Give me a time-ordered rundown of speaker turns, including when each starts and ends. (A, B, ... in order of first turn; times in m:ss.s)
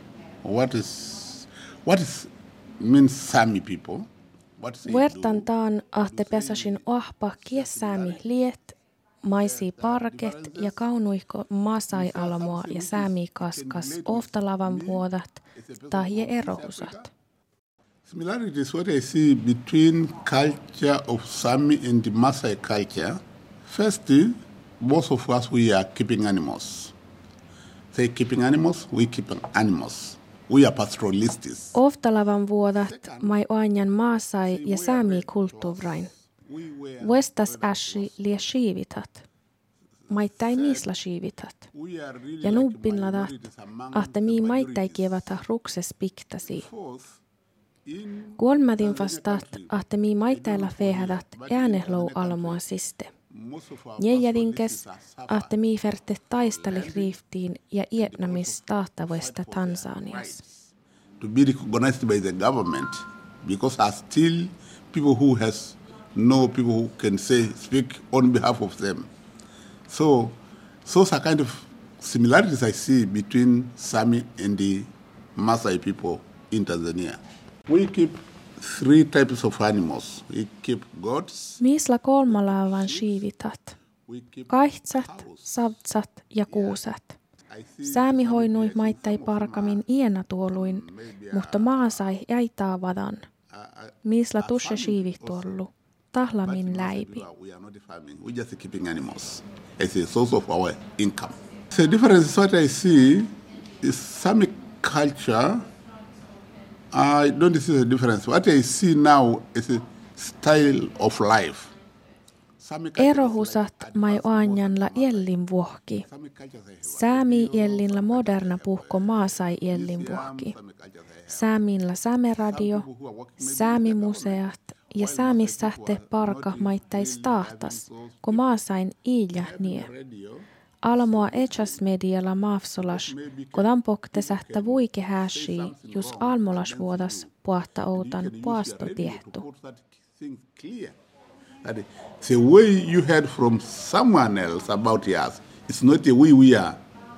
0:00.4-0:05.5 A
0:04.8-0:17.0 B
0:06.0-0:08.2 A
0:09.4-0:10.8 A
0:11.9-0:17.1 A
0:18.0-0:27.0 A
0:27.9-0:31.8 A
0:31.8-0:36.1 B
0:32.8-0:33.4 A
0:34.4-0:38.2 A
0:37.0-0:39.2 B
0:40.1-0:41.7 B
0:40.2-0:40.9 A
0:41.7-0:45.4 A
0:42.4-0:46.7 B
0:46.4-0:47.2 A
0:47.9-0:52.6 A
0:48.4-0:53.1 B
0:53.3-0:55.5 A
0:54.0-1:00.4 B
0:56.4-0:57.2 A
0:58.0-1:09.1 A
1:09.9-1:21.6 A
1:21.6-1:23.8 B
1:22.3-1:23.2 A
1:24.1-1:25.6 A
1:24.5-1:27.2 B
1:26.5-1:26.8 A
1:27.5-1:29.8 A
1:27.8-1:33.3 B
1:30.5-1:32.1 A
1:33.5-1:35.6 A
1:34.0-1:37.2 B
1:36.4-1:45.7 A
1:46.9-1:51.7 A
1:52.6-1:55.3 A
1:53.0-1:56.1 B
1:56.0-2:01.5 A
1:56.8-2:00.6 B
2:01.3-2:02.9 B
2:02.4-2:08.6 A
2:03.4-2:09.9 B
2:09.3-2:11.8 A
2:10.8-2:19.5 B
2:12.8-2:17.3 A
2:17.9-2:21.0 A
2:21.6-2:26.8 A